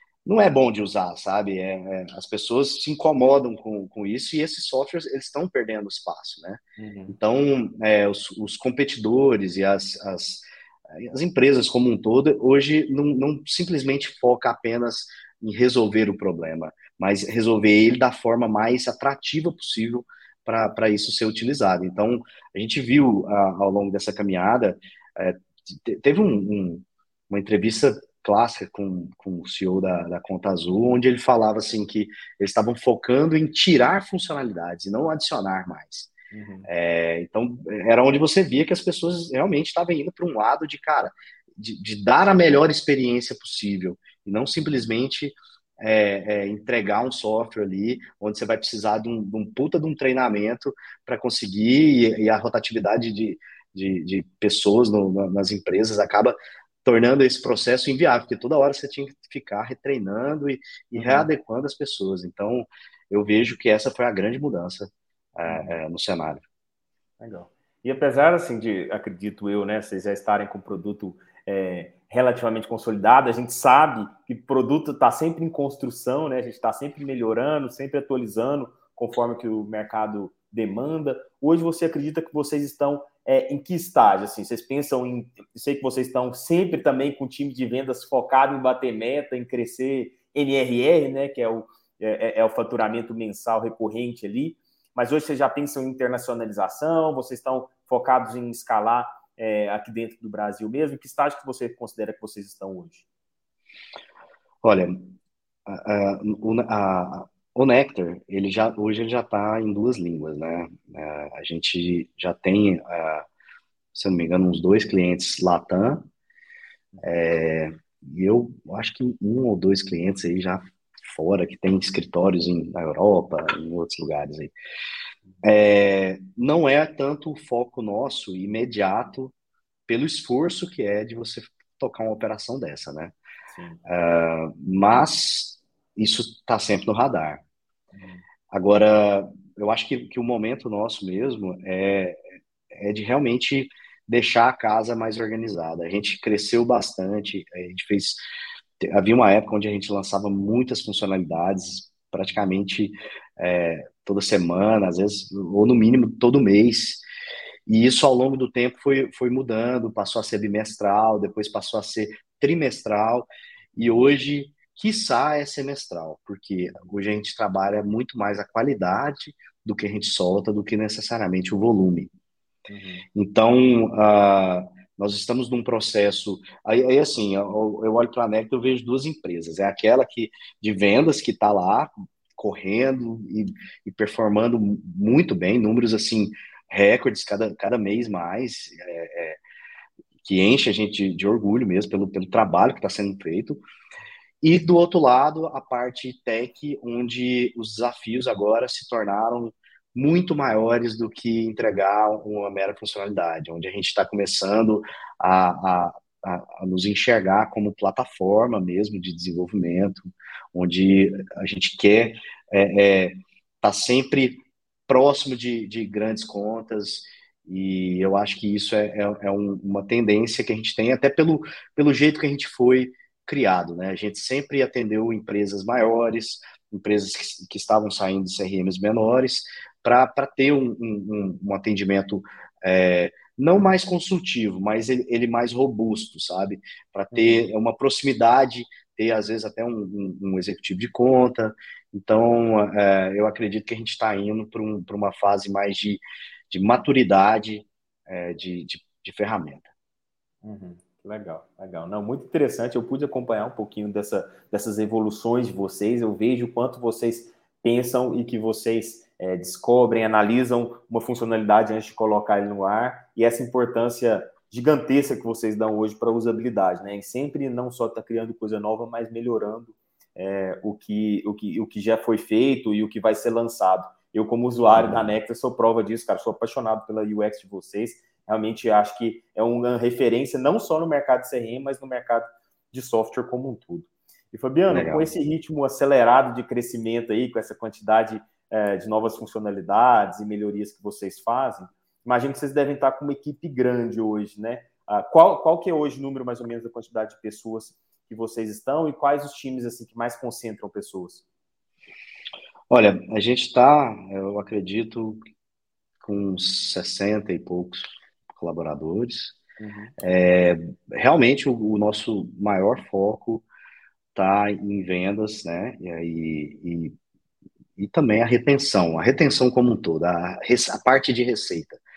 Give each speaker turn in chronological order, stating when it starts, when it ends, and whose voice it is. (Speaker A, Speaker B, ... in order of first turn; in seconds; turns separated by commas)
Speaker A: 0.3-36.1, Speaker B: 6.8-7.2, Speaker B: 36.3-36.7, Speaker A: 36.7-66.4, Speaker B: 61.0-61.3, Speaker B: 65.5-65.8, Speaker B: 67.2-103.1, Speaker A: 104.6-105.1, Speaker A: 105.7-113.3, Speaker A: 113.9-116.1, Speaker A: 117.0-124.5, Speaker A: 125.4-129.3, Speaker A: 129.9-133.2, Speaker B: 133.5-133.8, Speaker A: 133.8-137.4, Speaker B: 137.9-138.2, Speaker A: 138.5-142.2, Speaker A: 142.7-148.2, Speaker A: 148.8-157.0, Speaker A: 157.7-172.1, Speaker B: 172.7-173.1, Speaker A: 173.1-189.4, Speaker A: 190.2-193.6, Speaker A: 194.4-249.7, Speaker B: 237.1-237.5, Speaker B: 250.4-301.2, Speaker A: 274.7-275.1, Speaker A: 284.7-285.1, Speaker A: 302.7-305.2, Speaker A: 306.0-309.4, Speaker B: 309.6-309.9, Speaker A: 310.0-313.4, Speaker A: 314.1-316.9, Speaker A: 317.8-321.8